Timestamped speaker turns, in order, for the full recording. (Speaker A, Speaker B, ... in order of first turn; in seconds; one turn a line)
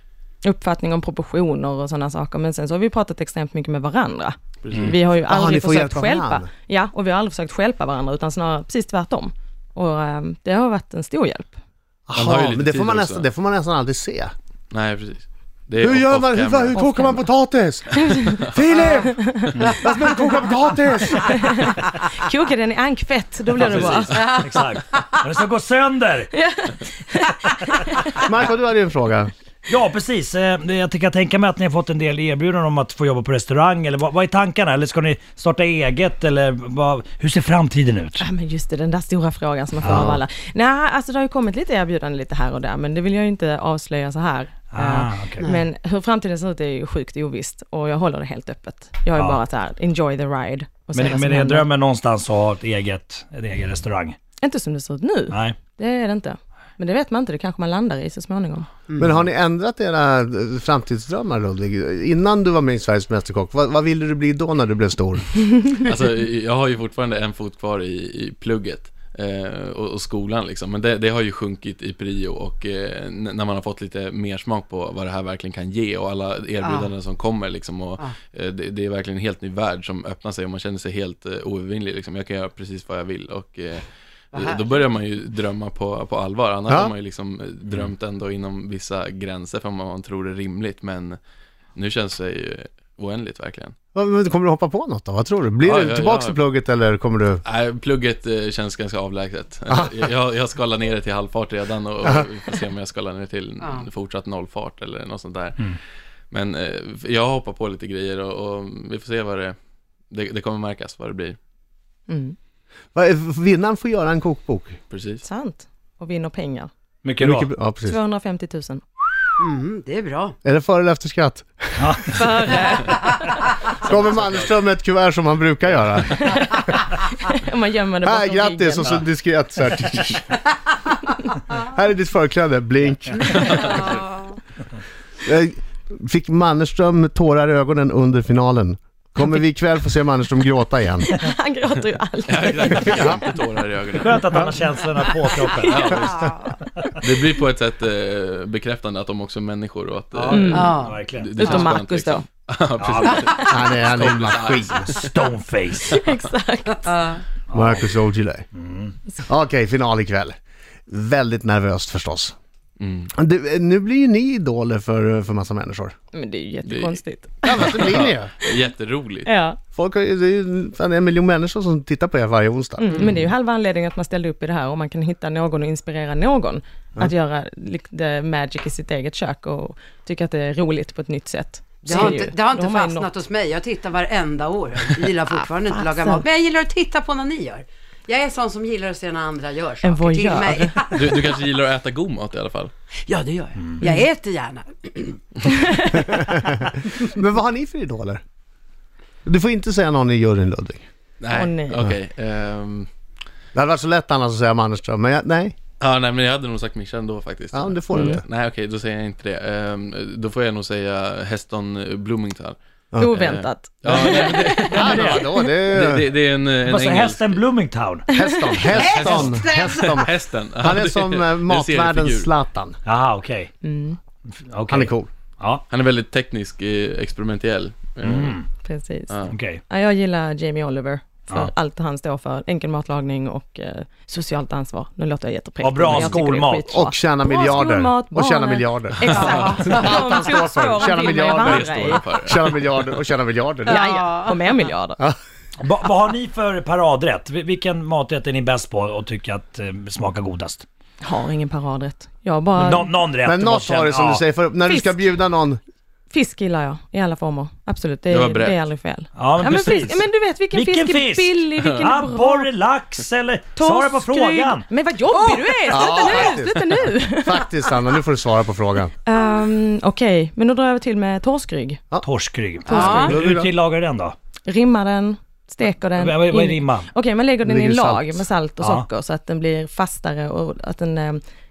Speaker A: 0.4-11.6
Speaker B: 4.6-5.0
Speaker C: 5.2-6.5
Speaker C: 12.1-14.3
Speaker B: 12.1-13.3
Speaker B: 14.7-16.8
Speaker C: 15.8-21.6
Speaker A: 16.7-17.3
Speaker A: 18.0-18.4
Speaker A: 18.9-19.5
Speaker A: 21.1-24.2
Speaker B: 23.6-24.4
Speaker D: 23.8-26.3
Speaker E: 24.1-25.1
Speaker A: 26.3-28.2
Speaker C: 28.2-29.3
Speaker D: 29.7-38.2
Speaker A: 38.2-51.7
Speaker D: 39.8-40.2
Speaker D: 44.7-45.5
Speaker D: 50.9-54.2
Speaker A: 54.4-58.7
Speaker D: 55.3-55.6
Speaker C: 59.0-65.7
Speaker B: 65.8-91.2
Speaker E: 76.6-76.9
Speaker E: 84.3-84.8
Speaker B: 91.8-93.8
Speaker C: 94.0-97.4
Speaker B: 95.6-96.4
Speaker B: 97.5-105.7
Speaker E: 103.6-103.9
Speaker B: 106.3-109.6
Speaker B: 110.1-111.4
Speaker A: 112.1-112.3
Speaker C: 113.0-114.8
Speaker B: 114.9-115.2
Speaker A: 115.2-116.7
Speaker D: 117.0-117.5
Speaker C: 117.2-118.0
Speaker A: 117.8-118.8
Speaker E: 119.4-120.3
Speaker C: 120.4-121.8
Speaker D: 121.8-122.2
Speaker A: 122.1-123.5
Speaker C: 123.8-126.5
Speaker A: 126.1-129.0
Speaker C: 128.0-130.4
Speaker C: 131.6-133.7
Speaker B: 133.3-134.0
Speaker E: 133.6-134.3
Speaker C: 135.2-141.1
Speaker A: 141.0-143.2
Speaker B: 142.3-144.5
Speaker C: 142.8-143.2
Speaker D: 143.9-146.1
Speaker B: 145.6-146.2
Speaker E: 145.7-146.6
Speaker B: 147.0-155.2
Speaker D: 150.1-151.4
Speaker A: 150.3-150.7
Speaker E: 150.6-151.7
Speaker A: 151.4-152.2
Speaker D: 152.8-153.2
Speaker E: 153.1-153.4
Speaker C: 153.5-154.9
Speaker D: 154.0-154.3
Speaker D: 155.0-156.0
Speaker A: 155.9-156.9
Speaker E: 156.8-157.2
Speaker D: 157.5-157.9
Speaker C: 157.5-158.5
Speaker D: 158.5-158.9
Speaker C: 159.2-160.4
Speaker C: 160.9-162.3
Speaker B: 162.8-163.1
Speaker C: 163.1-165.9
Speaker A: 166.1-167.8
Speaker B: 166.6-167.0
Speaker C: 167.4-168.3
Speaker B: 167.6-169.3
Speaker A: 169.2-169.6
Speaker C: 169.7-173.1
Speaker A: 172.8-183.1
Speaker E: 181.8-191.3
Speaker A: 185.7-186.2
Speaker A: 189.8-190.8
Speaker B: 190.9-192.7
Speaker E: 193.1-195.3
Speaker A: 195.5-196.1
Speaker C: 195.9-198.2
Speaker C: 199.3-200.8
Speaker B: 201.2-202.9
Speaker A: 201.3-201.8
Speaker C: 203.5-205.6
Speaker B: 205.8-217.4
Speaker C: 207.5-208.2
Speaker A: 207.9-208.2
Speaker A: 213.0-215.1
Speaker D: 213.9-215.2
Speaker C: 214.7-216.0
Speaker D: 216.6-218.1
Speaker C: 218.1-222.8
Speaker A: 218.2-218.6
Speaker B: 218.7-222.3
Speaker E: 218.7-220.0
Speaker D: 222.9-223.5
Speaker A: 223.6-224.0
Speaker D: 224.3-225.6
Speaker C: 224.7-225.1
Speaker B: 225.7-228.4
Speaker D: 228.0-228.5
Speaker A: 228.6-229.2
Speaker D: 229.3-229.6
Speaker A: 229.7-242.0
Speaker D: 235.6-236.7
Speaker C: 235.8-236.2
Speaker C: 236.7-243.9
Speaker E: 239.1-240.0
Speaker B: 240.8-242.7
Speaker E: 243.7-244.7
Speaker A: 243.7-245.0
Speaker D: 245.6-250.7
Speaker A: 251.0-252.9
Speaker D: 252.6-254.2
Speaker C: 253.2-255.6
Speaker A: 254.7-255.0
Speaker A: 256.1-262.5
Speaker B: 258.1-258.6
Speaker D: 259.1-264.7
Speaker A: 263.6-267.5
Speaker E: 265.1-266.4
Speaker C: 265.7-268.9
Speaker A: 269.1-271.8
Speaker D: 272.0-274.1
Speaker E: 272.7-273.1
Speaker A: 272.7-273.1
Speaker C: 272.9-273.5
Speaker A: 274.5-281.2
Speaker D: 276.0-276.9
Speaker C: 277.4-278.3
Speaker D: 278.6-278.9